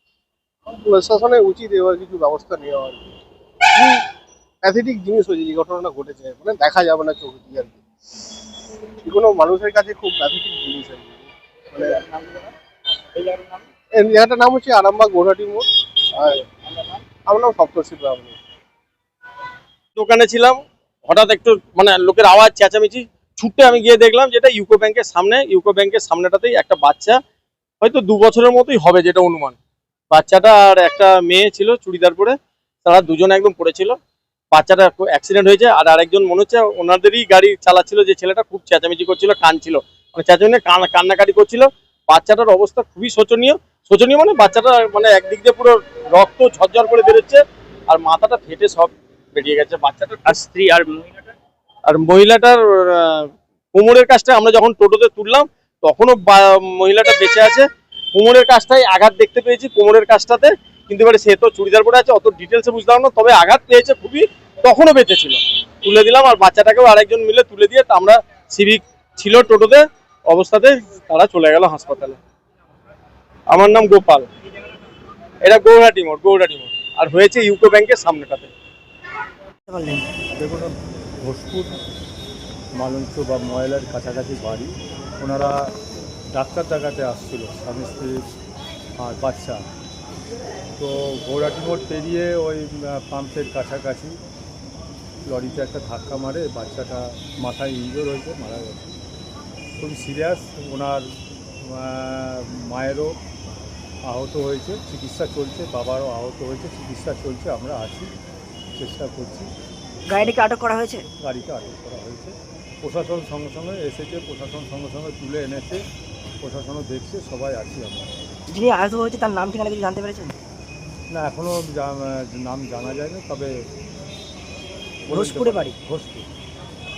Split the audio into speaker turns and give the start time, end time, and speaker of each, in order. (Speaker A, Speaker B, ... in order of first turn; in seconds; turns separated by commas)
Speaker A: 0.7-3.0, Speaker A: 3.8-4.0, Speaker A: 4.6-7.8, Speaker A: 9.0-12.0, Speaker B: 12.0-12.5, Speaker B: 13.2-13.6, Speaker A: 13.9-16.4, Speaker A: 17.3-18.4, Speaker C: 19.9-27.2, Speaker C: 27.8-29.6, Speaker C: 30.1-34.0, Speaker C: 34.5-50.4, Speaker B: 50.3-51.3, Speaker C: 51.9-72.2, Speaker C: 73.5-74.3, Speaker C: 75.4-78.5, Speaker D: 79.7-80.0, Speaker E: 80.3-81.7, Speaker E: 82.7-85.7, Speaker E: 86.3-88.2, Speaker E: 89.0-89.6, Speaker E: 90.8-94.2, Speaker E: 95.2-98.9, Speaker E: 99.8-101.1, Speaker E: 101.6-103.2, Speaker E: 104.0-108.1, Speaker E: 108.8-109.5, Speaker D: 110.1-111.0, Speaker E: 111.2-115.8, Speaker E: 116.4-118.1, Speaker D: 118.5-120.3, Speaker E: 121.1-123.7, Speaker E: 125.0-126.3, Speaker D: 125.1-125.7